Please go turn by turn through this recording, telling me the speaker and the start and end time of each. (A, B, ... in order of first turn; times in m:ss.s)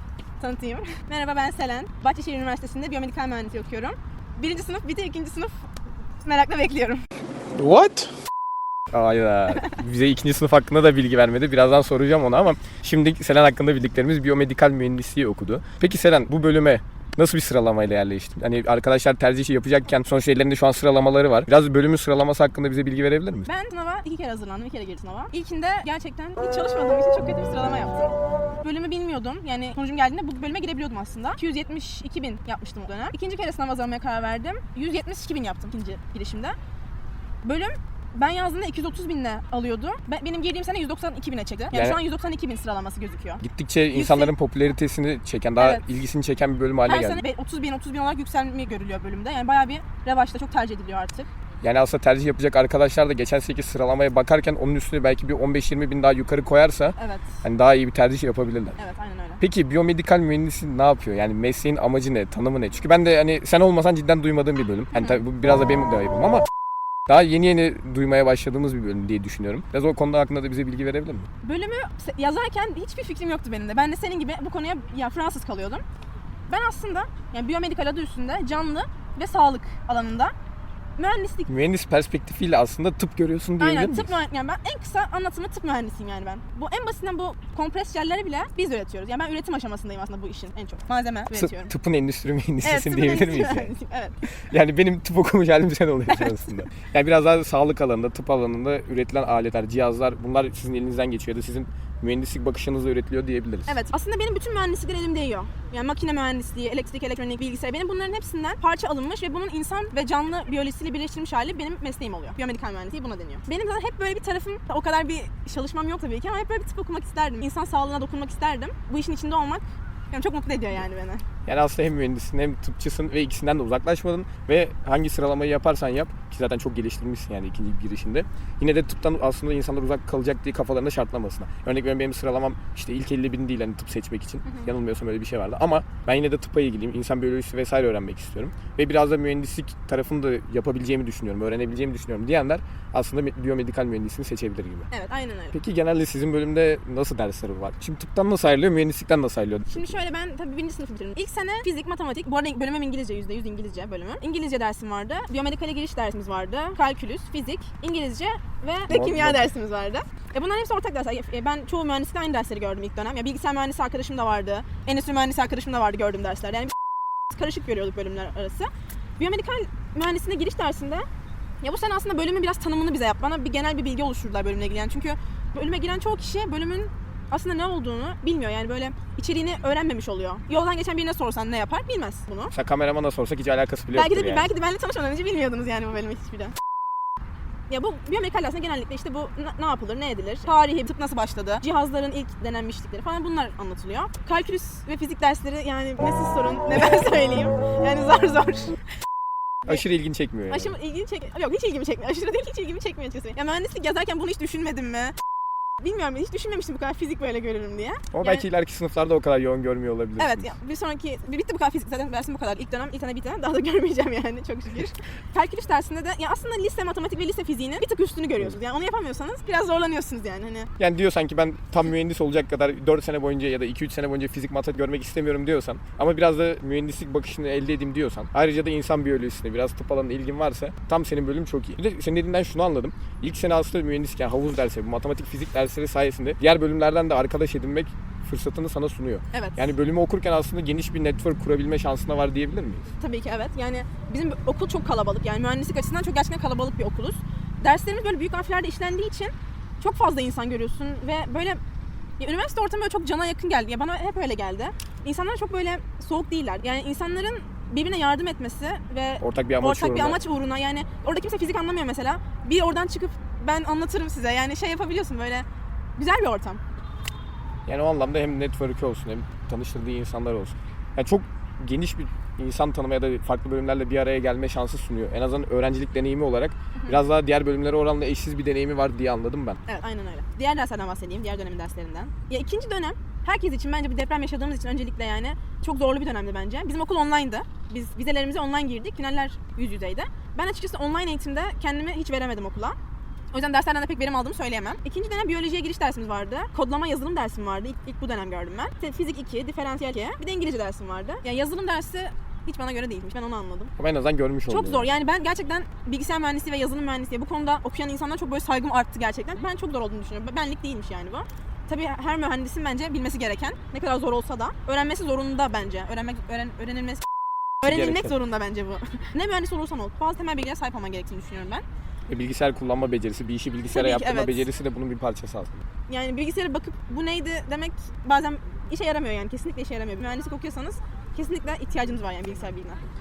0:00.4-0:05.6 A
0:06.2-0:07.0 A
0:07.5-0:08.1 B
0:08.9-0:23.5 B
0:23.4-0:36.6 A
0:37.4-0:43.4 A
0:41.7-0:42.0 B
0:43.4-0:47.2 B
0:43.9-0:44.3 A
0:45.6-0:45.8 A
0:46.8-0:51.3 A
0:51.6-0:58.8 B
0:57.0-0:57.4 A
0:58.8-0:59.4 A
0:59.4-1:06.4 B
1:04.9-1:05.2 A
1:07.1-1:11.3 B
1:11.4-1:15.8 A
1:16.5-1:20.3 A
1:21.0-1:21.5 A
1:21.5-1:24.2 B
1:23.6-1:31.7 A
1:31.3-1:33.7 B
1:32.6-1:34.2 A
1:34.3-1:43.7 B
1:36.1-1:36.4 A
1:43.7-2:01.2 A
2:01.4-2:24.9 B
2:24.9-2:25.6 A
2:25.5-2:30.0 B
2:29.7-2:46.7 A
2:38.9-2:39.5 B
2:47.3-2:51.0 A
2:51.6-3:02.5 A
3:02.5-3:04.5 B
3:03.9-3:06.5 A
3:07.7-3:18.8 A
3:19.7-3:20.7 B
3:20.5-3:25.1 A
3:25.8-3:28.4 A
3:28.1-3:30.5 B
3:30.2-3:40.7 A
3:40.8-4:02.9 B
3:59.3-3:59.7 A
4:03.0-4:11.6 A
4:12.2-4:25.4 A
4:19.2-4:20.2 B
4:26.0-4:26.6 A
4:27.7-4:39.6 B
4:39.7-4:52.8 A
4:53.3-5:03.7 A
5:03.8-5:04.9 B
5:04.5-5:17.0 A
5:17.6-5:18.1 B
5:17.6-5:21.6 A
5:22.1-5:25.6 B
5:23.7-5:24.5 A
5:25.9-5:32.8 A